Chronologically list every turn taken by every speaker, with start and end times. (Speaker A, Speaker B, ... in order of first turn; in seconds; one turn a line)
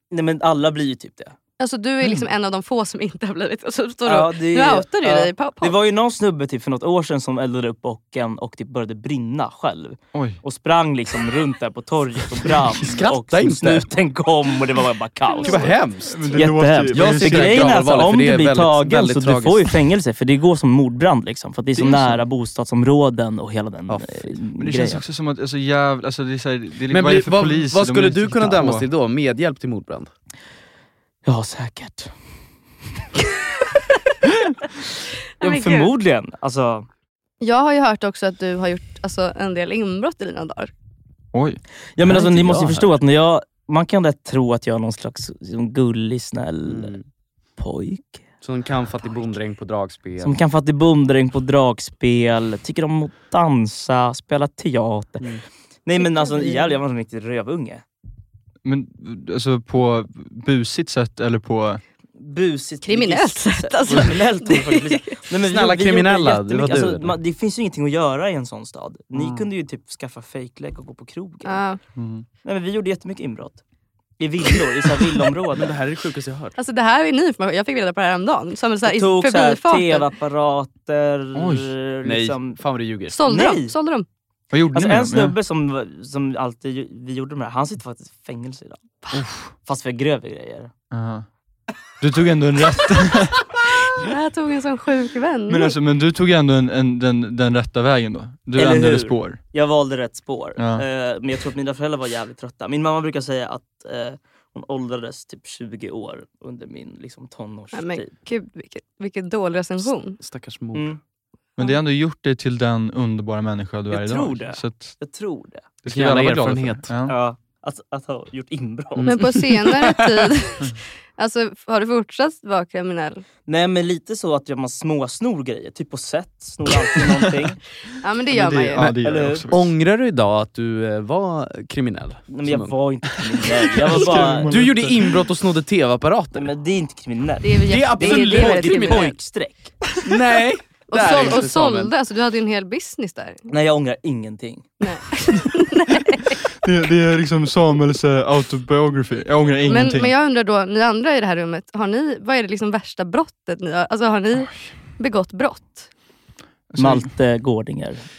Speaker A: 0.1-1.4
Speaker B: 1.6-5.8
Speaker A: 4.0-15.7
Speaker C: 10.1-10.4
Speaker D: 12.7-13.9
Speaker B: 15.3-15.7
Speaker D: 15.4-16.2
Speaker C: 16.1-17.9
Speaker A: 16.3-25.0
Speaker D: 16.9-19.7
Speaker C: 21.8-22.2
Speaker D: 23.9-24.3
Speaker C: 24.6-28.9
Speaker D: 26.9-30.1
Speaker A: 31.2-32.1
Speaker B: 35.4-35.9
Speaker A: 35.4-36.9
Speaker B: 37.4-40.7
Speaker C: 41.3-41.6
Speaker A: 42.0-47.0
Speaker D: 42.0-42.9
Speaker D: 46.6-47.0
Speaker A: 47.6-48.2
Speaker D: 48.4-50.4
Speaker A: 50.2-55.3
Speaker A: 55.9-57.8
Speaker B: 56.0-56.7
Speaker C: 58.6-61.8
Speaker A: 62.1-71.6
Speaker B: 62.8-65.2
Speaker D: 65.4-67.2
Speaker C: 69.1-69.5
Speaker B: 71.5-71.8
Speaker C: 72.0-72.2
Speaker A: 72.4-73.6
Speaker A: 74.2-75.7
Speaker D: 75.5-76.5
Speaker B: 76.6-80.1
Speaker A: 78.8-82.6
Speaker C: 81.3-81.7
Speaker D: 82.0-83.2
Speaker B: 83.1-84.1
Speaker A: 83.2-83.7
Speaker C: 84.5-85.3
Speaker A: 84.7-88.8
Speaker C: 89.1-89.5
Speaker A: 89.6-90.7
Speaker C: 90.9-91.2
Speaker C: 92.0-93.5
Speaker B: 93.9-95.7
Speaker C: 95.5-99.4
Speaker A: 98.5-108.1
Speaker C: 100.6-100.8
Speaker B: 107.7-110.2
Speaker D: 110.2-110.9
Speaker A: 110.7-111.0
Speaker C: 111.6-115.0
Speaker A: 113.9-115.6
Speaker C: 115.8-117.1
Speaker D: 115.8-116.9
Speaker A: 117.0-119.2
Speaker D: 118.9-120.3
Speaker B: 119.0-123.2
Speaker A: 123.5-127.6
Speaker B: 128.0-128.8
Speaker C: 128.3-129.7
Speaker A: 128.9-129.4
Speaker D: 129.5-132.7
Speaker A: 132.3-134.7
Speaker C: 133.8-135.2
Speaker D: 134.4-136.5
Speaker A: 136.3-139.7
Speaker B: 137.4-139.1
Speaker D: 137.7-139.1
Speaker D: 140.0-141.9
Speaker B: 140.9-143.4
Speaker A: 143.5-144.7
Speaker B: 144.8-146.4
Speaker C: 146.6-150.1
Speaker B: 149.6-155.9
Speaker C: 156.7-157.1
Speaker A: 156.8-158.0